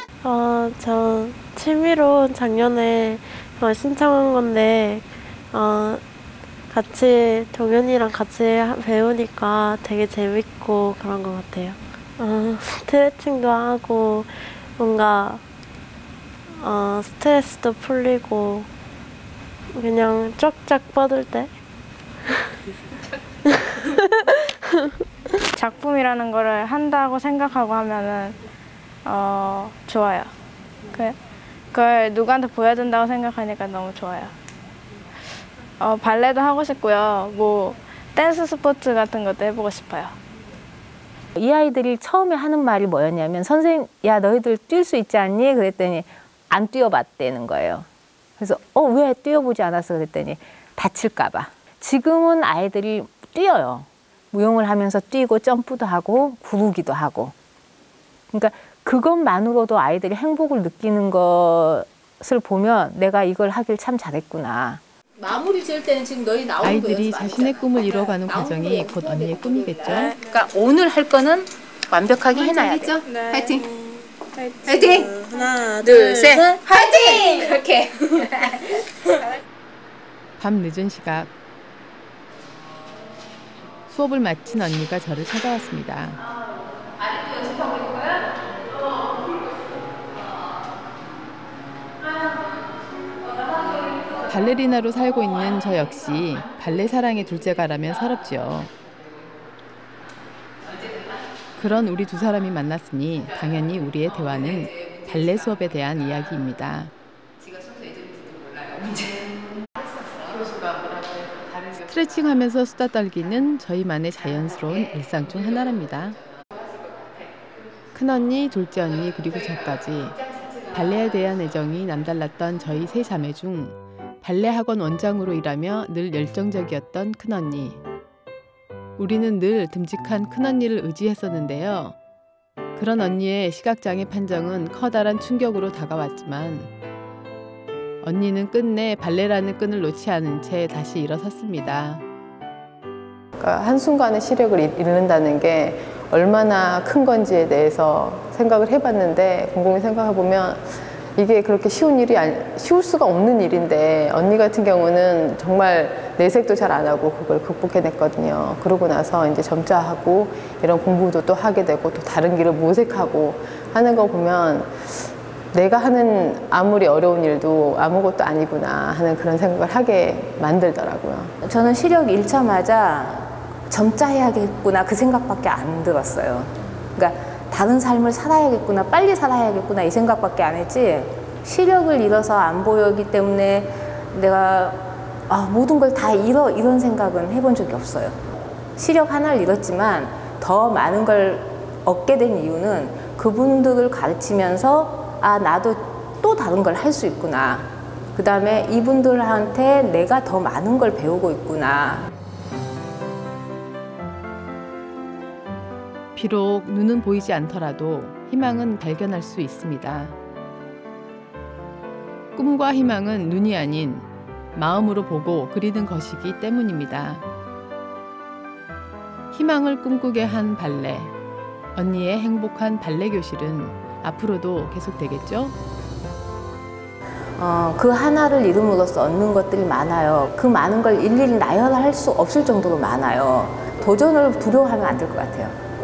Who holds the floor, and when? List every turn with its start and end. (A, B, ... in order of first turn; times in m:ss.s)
0:00.2-0:06.0 A
0:06.7-0:15.4 A
0:16.6-0:18.7 A
0:19.7-0:21.5 A
0:25.5-0:28.4 B
0:29.0-0:30.3 B
0:30.9-0:31.2 B
0:31.7-0:34.3 B
0:35.8-0:40.2 B
0:41.4-0:47.9 C
0:48.4-0:57.3 C
0:58.3-1:04.8 C
1:05.2-1:07.6 D
1:06.6-1:10.2 E
1:08.3-1:08.8 C
1:09.9-1:10.2 B
1:10.2-1:13.6 D
1:13.0-1:16.0 B
1:14.7-1:15.2 D
1:15.8-1:18.6 D
1:20.4-1:21.3 E
1:23.9-1:26.2 E
1:27.5-1:28.0 D
1:34.2-1:38.7 E
1:41.6-1:46.9 E
1:44.3-1:45.1 D
1:47.4-1:50.3 D
1:50.3-1:56.2 E
1:57.9-2:00.2 E
2:00.7-2:07.8 E
2:09.0-2:12.0 E
2:12.8-2:16.7 E
2:18.0-2:22.0 E
2:23.4-2:51.3 E
2:51.4-3:08.2 C
3:08.8-3:22.1 C
3:26.2-3:30.2 E
3:32.4-3:37.2 E
3:39.3-3:41.1 E
3:41.8-3:45.6 E
3:47.4-3:55.6 C